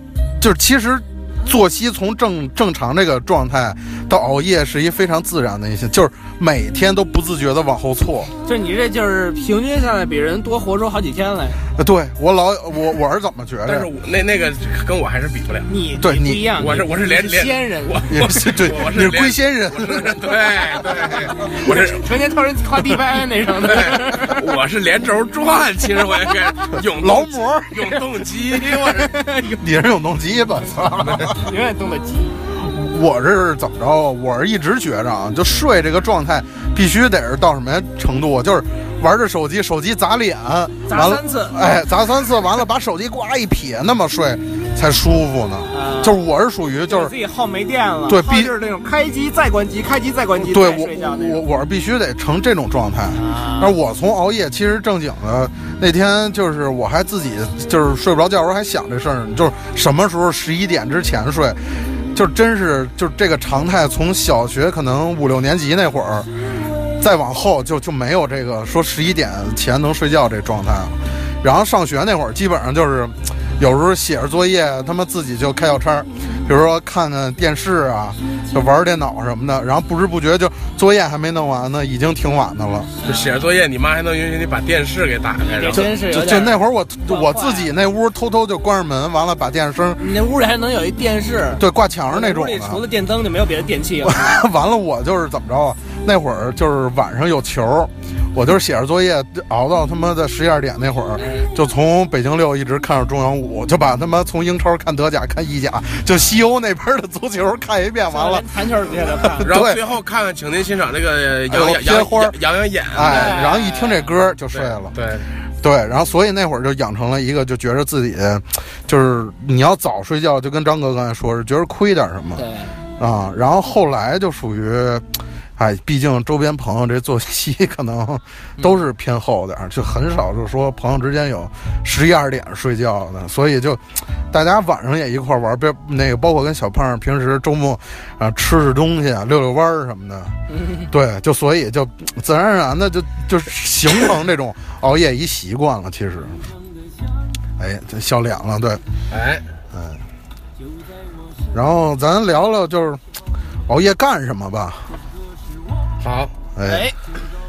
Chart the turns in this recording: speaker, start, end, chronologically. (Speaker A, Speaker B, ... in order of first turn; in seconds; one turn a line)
Speaker A: 0.4-8.3
Speaker B: 8.4-11.6
Speaker A: 11.8-13.9
Speaker C: 13.7-15.7
Speaker B: 15.7-18.1
Speaker A: 16.0-16.5
Speaker C: 16.6-22.1
Speaker A: 18.1-20.1
Speaker B: 21.4-24.5
Speaker C: 23.6-29.1
Speaker A: 26.9-27.9
Speaker B: 28.5-29.6
Speaker A: 29.6-31.4
Speaker B: 31.3-32.4
Speaker A: 32.6-47.1
Speaker B: 40.9-41.6
Speaker B: 45.7-46.2
Speaker B: 46.9-51.4
Speaker A: 48.1-48.5
Speaker A: 50.5-66.3
Speaker B: 53.1-53.8
Speaker A: 67.0-82.9
Speaker C: 83.0-85.9
Speaker B: 83.0-83.4
Speaker B: 85.4-87.7
Speaker A: 85.7-90.0
Speaker B: 90.0-94.3
Speaker A: 91.6-92.8
Speaker A: 94.0-108.5
Speaker B: 101.2-101.5
Speaker B: 108.1-109.6
Speaker A: 109.2-109.8
Speaker C: 109.5-113.4
Speaker A: 111.5-112.4
Speaker A: 112.9-114.9
Speaker B: 113.0-114.1
Speaker C: 114.5-115.3
Speaker A: 115.6-122.5
Speaker B: 122.4-122.8
Speaker A: 123.0-125.1
Speaker A: 125.6-140.3
Speaker B: 140.5-140.9
Speaker A: 140.9-146.5
Speaker A: 147.6-148.8
Speaker C: 149.1-149.4
Speaker A: 149.7-150.0
Speaker A: 151.5-153.0
Speaker A: 153.7-154.9
Speaker C: 156.0-156.3
Speaker A: 156.6-156.9
Speaker B: 156.7-156.9